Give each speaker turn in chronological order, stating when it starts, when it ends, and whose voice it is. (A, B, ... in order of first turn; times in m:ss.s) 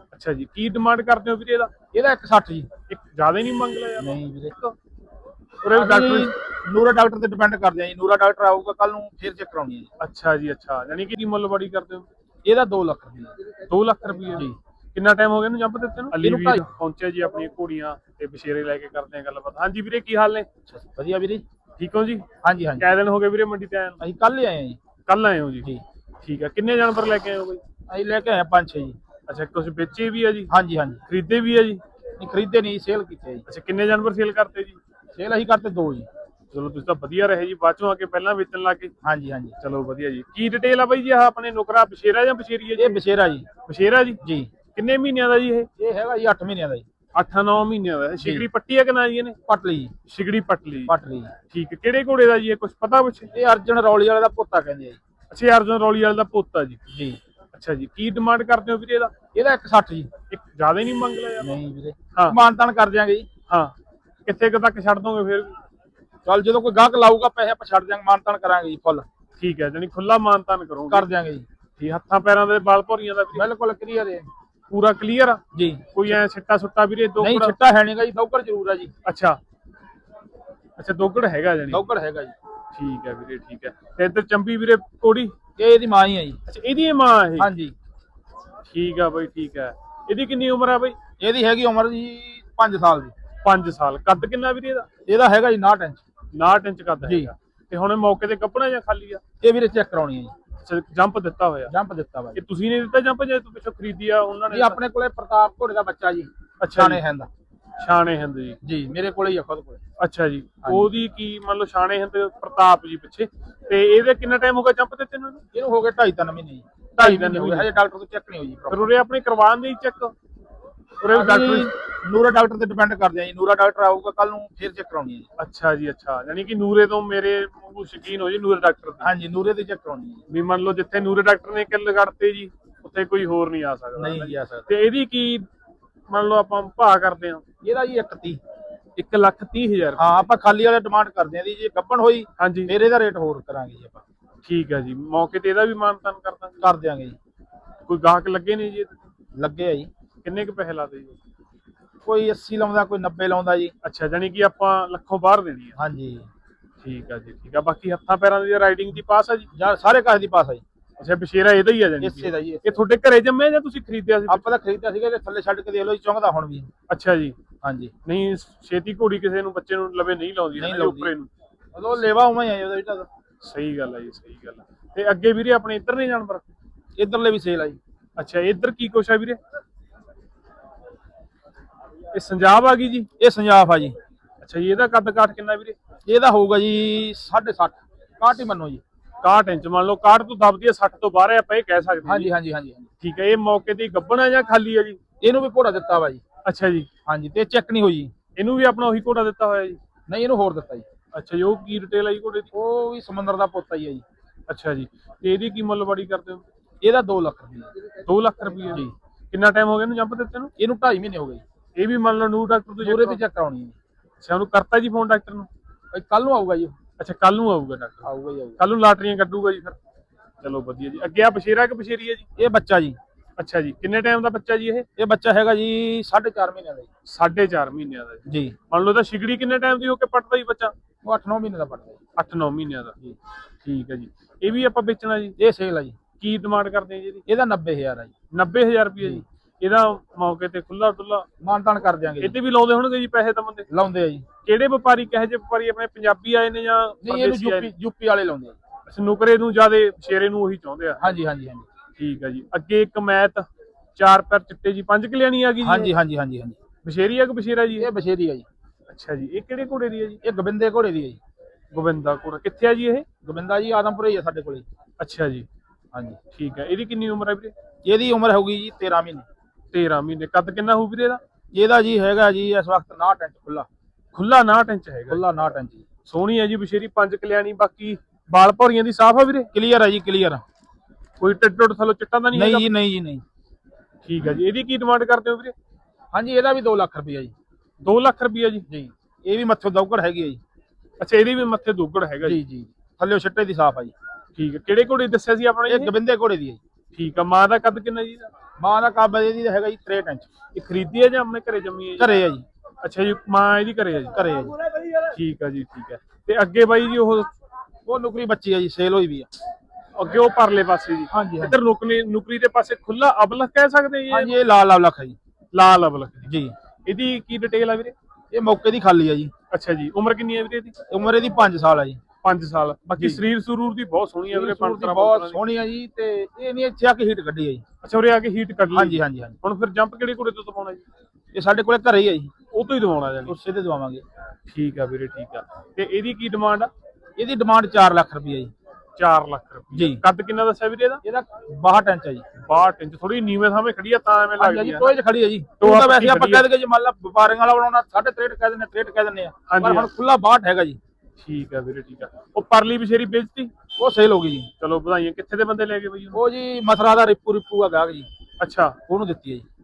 0:00.1-0:01.7 A
0:01.9-0:02.7 B
0:02.9-0:04.8 A
0:04.0-0:04.5 B
0:05.6-0:06.3 A
0:05.6-0:09.9 B
0:10.0-0:12.0 A
0:12.4-0:13.3 B
0:13.7-0:20.5 A
0:16.2-0:16.6 B
0:20.7-0:21.4 B
0:21.8-0:22.2 A
0:22.4-0:22.9 B
0:22.8-0:24.0 A
0:24.0-0:24.8 B
0:25.1-0:27.6 A
0:27.9-0:29.0 B
0:29.3-0:30.5 A
0:30.5-0:31.0 B
0:31.1-0:31.8 A
0:32.2-0:33.4 B
0:33.5-0:34.8 A
0:35.1-0:36.1 B
0:36.5-0:38.9 A
0:39.0-0:39.5 B
0:39.6-0:43.0 A
0:42.8-0:43.5 B
0:43.6-0:44.2 A
0:44.2-0:44.5 B
0:44.7-0:45.7 A
0:45.8-0:46.8 B
0:47.1-0:49.4 A
0:48.2-0:48.5 B
0:49.5-0:49.9 B
0:50.1-0:50.9 A
0:50.9-0:51.3 B
0:51.5-0:53.3 A
0:53.3-0:55.0 B
0:55.3-0:56.8 A
0:56.9-0:57.2 B
0:57.5-0:59.1 A
0:59.3-1:00.1 B
1:00.3-1:01.6 A
1:01.4-1:03.3 B
1:03.5-1:03.7 A
1:04.2-1:05.6 A
1:06.2-1:09.0 B
1:09.4-1:11.1 A
1:10.9-1:11.4 B
1:11.8-1:13.4 A
1:13.3-1:14.3 B
1:14.7-1:15.4 A
1:15.5-1:16.1 B
1:15.9-1:17.5 A
1:17.2-1:18.9 B
1:19.0-1:19.4 A
1:20.8-1:21.9 A
1:21.7-1:22.4 B
1:22.7-1:25.3 A
1:25.6-1:26.4 B
1:26.5-1:27.5 A
1:27.4-1:27.7 B
1:28.6-1:31.0 A
1:31.2-1:33.1 B
1:33.4-1:34.9 A
1:35.0-1:36.0 B
1:36.3-1:39.2 A
1:37.0-1:37.3 B
1:39.4-1:40.3 B
1:40.6-1:41.7 A
1:41.7-1:42.4 B
1:42.3-1:44.8 A
1:44.5-1:47.3 B
1:46.6-1:47.0 A
1:47.8-1:48.6 A
1:48.6-1:49.8 B
1:50.0-1:55.4 A
1:50.6-1:50.9 B
1:55.5-1:58.9 B
1:57.0-1:57.7 A
1:58.7-2:00.1 A
2:01.0-2:01.7 A
2:01.1-2:05.2 B
2:05.4-2:09.1 A
2:09.0-2:10.2 B
2:10.3-2:15.5 A
2:14.0-2:14.7 B
2:16.1-2:17.4 A
2:17.6-2:18.4 B
2:19.0-2:20.3 A
2:20.0-2:24.0 B
2:22.4-2:22.7 A
2:24.4-2:26.6 A
2:26.6-2:27.2 B
2:27.9-2:28.9 A
2:29.4-2:29.9 B
2:30.2-2:31.2 A
2:32.0-2:33.7 B
2:33.8-2:35.7 A
2:35.8-2:36.3 B
2:36.8-2:39.5 A
2:39.5-2:40.6 B
2:41.0-2:44.4 A
2:42.0-2:42.6 B
2:44.3-2:46.7 B
2:46.9-2:47.4 A
2:47.6-2:47.9 B
2:48.0-2:51.3 A
2:50.6-2:51.1 B
2:51.7-2:53.1 B
2:53.4-2:56.4 A
2:57.0-2:57.8 B
2:58.2-2:59.4 A
3:02.1-3:03.1 A
3:03.2-3:03.9 B
3:04.4-3:05.8 A
3:06.0-3:08.8 B
3:09.2-3:12.3 A
3:12.0-3:12.9 B
3:13.0-3:15.0 A
3:15.2-3:16.2 B
3:16.4-3:16.9 A
3:17.1-3:18.1 B
3:18.4-3:19.8 A
3:20.1-3:20.8 B
3:21.1-3:22.5 A
3:22.5-3:24.0 B
3:24.5-3:26.4 A
3:26.8-3:27.7 B
3:28.0-3:30.5 A
3:30.6-3:31.4 B
3:31.8-3:33.2 A
3:32.8-3:33.7 B
3:34.2-3:35.5 A
3:35.9-3:36.8 B
3:37.0-3:38.1 A
3:38.0-3:38.6 B
3:38.6-3:39.8 A
3:40.4-3:42.2 A
3:42.4-3:43.0 B
3:43.4-3:44.8 A
3:45.0-3:46.9 B
3:47.0-3:50.7 A
3:48.3-3:48.5 B
3:51.0-3:52.0 B
3:52.2-3:53.0 A
3:53.6-3:55.4 A
3:55.4-3:56.0 B
3:56.2-3:57.2 A
3:57.3-3:58.1 B
3:58.3-4:01.3 A
4:01.4-4:02.3 B
4:02.2-4:03.7 A
4:03.7-4:04.2 B
4:04.4-4:07.7 A
4:07.0-4:08.6 B
4:08.9-4:11.0 A
4:11.0-4:11.7 B
4:12.0-4:15.9 A
4:15.6-4:16.6 B
4:16.8-4:17.9 A
4:17.8-4:18.4 B
4:18.9-4:20.2 A
4:20.2-4:21.2 B
4:21.7-4:23.0 A
4:23.2-4:24.6 B
4:25.0-4:25.5 A
4:25.9-4:26.2 B
4:26.3-4:27.5 A
4:27.8-4:29.2 B
4:29.7-4:31.2 A
4:31.5-4:33.7 B
4:34.1-4:35.2 A
4:35.1-4:35.8 B
4:36.0-4:39.5 A
4:39.5-4:40.4 B
4:41.2-4:42.7 A
4:42.3-4:43.2 B
4:44.0-4:45.5 A
4:46.1-4:47.3 B
4:47.8-4:48.6 A
4:48.7-4:50.4 B
4:51.0-4:52.4 A
4:52.2-4:53.9 B
4:54.3-4:55.9 A
4:55.7-4:56.6 B
4:56.9-4:58.3 A
4:58.6-5:00.3 B
5:00.5-5:02.1 A
5:02.0-5:02.4 B
5:02.8-5:04.2 A
5:04.1-5:04.6 B
5:05.1-5:07.3 A
5:07.8-5:09.3 B
5:09.9-5:14.3 A
5:11.1-5:11.6 B
5:14.1-5:15.2 B
5:15.5-5:16.3 A
5:16.3-5:16.5 B
5:16.8-5:17.9 A
5:18.3-5:19.3 B
5:19.5-5:20.7 A
5:20.9-5:22.0 B
5:22.2-5:25.4 A
5:23.0-5:23.2 B
5:24.3-5:27.6 B
5:27.8-5:30.8 A
5:28.7-5:29.4 B
5:31.3-5:32.3 B
5:32.5-5:33.3 A
5:33.2-5:34.0 B
5:34.5-5:36.7 A
5:37.2-5:38.5 B
5:39.0-5:41.0 A
5:39.7-5:40.0 B
5:41.0-5:42.2 B
5:42.4-5:44.9 A
5:44.4-5:50.8 B
5:45.6-5:46.5 A
5:49.5-5:49.9 A
5:51.2-5:53.5 A
5:53.8-5:54.5 B
5:54.6-5:56.2 A
5:56.1-5:58.1 B
5:58.4-5:58.8 A
5:58.9-5:59.4 B